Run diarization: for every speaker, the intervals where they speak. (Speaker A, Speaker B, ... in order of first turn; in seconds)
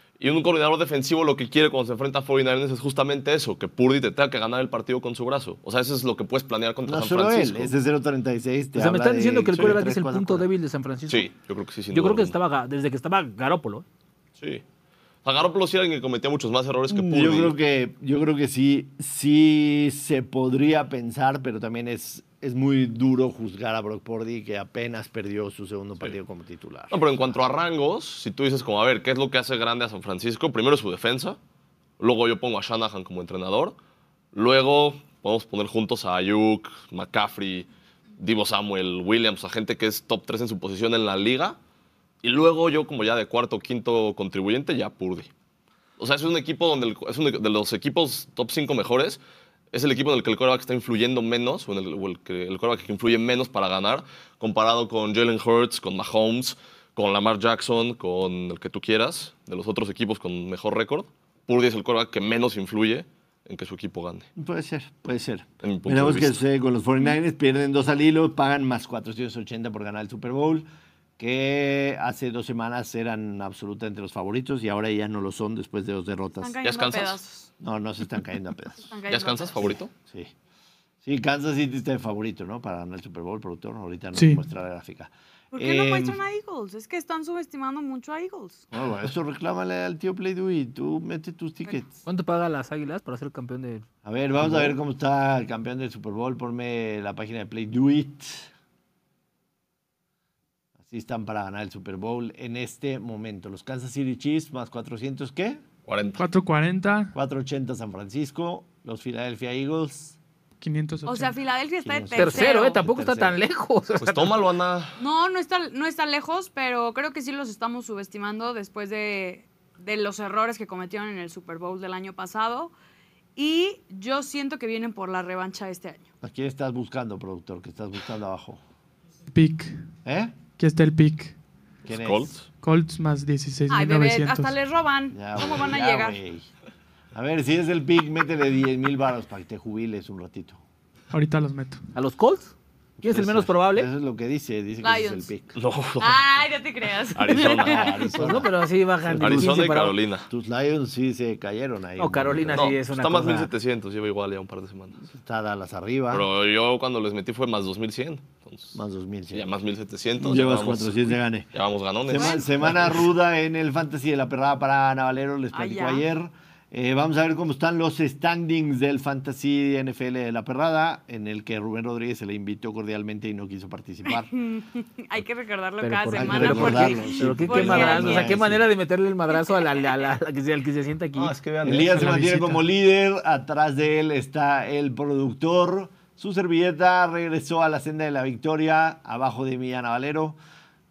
Speaker A: 0.2-7.7, 11.1-12.4, 14.4-14.6, 15.2-17.5, 26.9-31.4, 32.0-33.8, 34.3-37.7, 38.2-41.6, 42.2-45.3, 46.0-49.2, 49.7-64.3, 65.6-66.4, 76.6-77.2, 79.1-79.9, 105.9-106.2, 114.0-115.0, 131.9-132.5, 145.6-146.2, 147.2-148.5, 149.2-150.3, 152.5-155.0, 156.1-158.8, 159.3-163.0, 181.1-182.3
Speaker B: 6.8-10.5, 16.9-27.0, 64.4-70.7, 71.2-76.6, 77.6-78.9, 79.6-80.3, 81.0-86.2, 88.7-92.0, 94.0-98.5, 100.8-105.6, 107.2-110.2, 111.8-113.4, 126.2-128.6, 130.1-130.3, 131.9-132.3, 135.1-136.5, 137.1-140.6, 143.0-145.6, 148.2-148.5, 149.1-149.7, 150.3-152.7, 155.1-156.3, 158.8-159.5, 160.2-161.5, 162.1-174.3, 176.2-178.6, 181.6-190.4
Speaker C: 8.8-11.3, 11.9-13.8, 92.1-93.9, 94.4-94.8, 112.2-114.4, 141.9-143.9, 147.6-150.0, 152.0-153.5, 175.8-181.3
Speaker D: 76.4-77.5, 78.8-79.7, 85.5-88.7, 111.0-112.8, 115.0-122.7, 123.4-126.1, 133.7-136.2, 144.8-145.3, 146.0-148.1, 162.1-162.5, 165.5-166.1, 174.1-178.4
Speaker E: 106.2-107.2, 110.6-111.3, 129.3-129.8, 130.6-131.3, 132.6-134.5, 141.1-141.8, 181.9-182.6